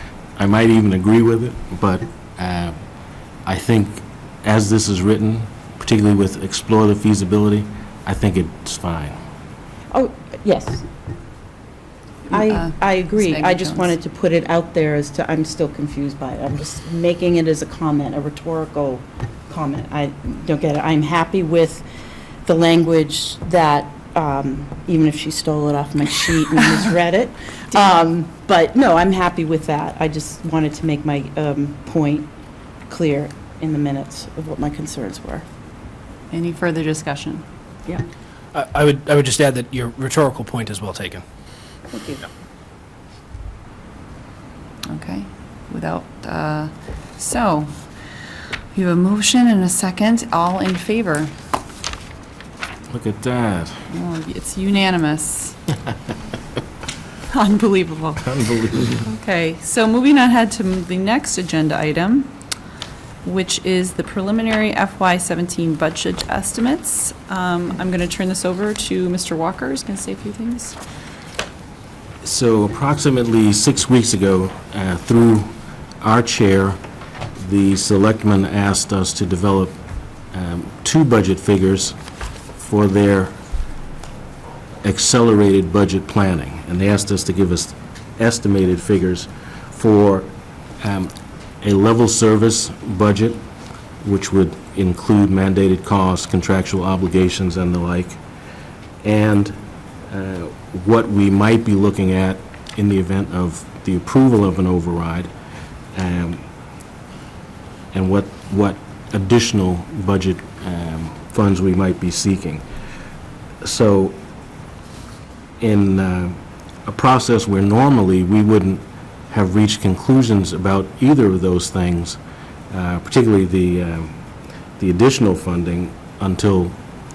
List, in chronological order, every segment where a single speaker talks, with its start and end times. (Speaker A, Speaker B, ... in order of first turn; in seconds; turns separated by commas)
Speaker A: 0.4-2.8, Speaker A: 3.5-9.2, Speaker B: 9.9-10.8, Speaker C: 12.3-13.9, Speaker B: 12.3-21.8, Speaker B: 22.4-32.3, Speaker B: 32.9-35.5, Speaker C: 36.3-37.4, Speaker D: 38.5-41.2, Speaker B: 41.9-42.2, Speaker C: 44.9-47.7, Speaker C: 48.7-51.3, Speaker A: 52.9-53.8, Speaker C: 53.9-55.6, Speaker C: 57.3-58.2, Speaker A: 58.2-59.0, Speaker C: 58.9-62.3, Speaker C: 63.2-70.8, Speaker A: 72.2-76.8, Speaker A: 77.4-79.8, Speaker A: 80.3-82.0, Speaker A: 82.6-83.3, Speaker A: 84.8-91.1, Speaker A: 91.6-93.4, Speaker A: 94.0-98.2, Speaker A: 99.0-99.5, Speaker A: 100.1-105.3, Speaker A: 105.9-106.4, Speaker A: 107.9-112.6, Speaker A: 113.6-114.2, Speaker A: 115.6-122.2, Speaker A: 122.7-124.1, Speaker A: 124.8-126.7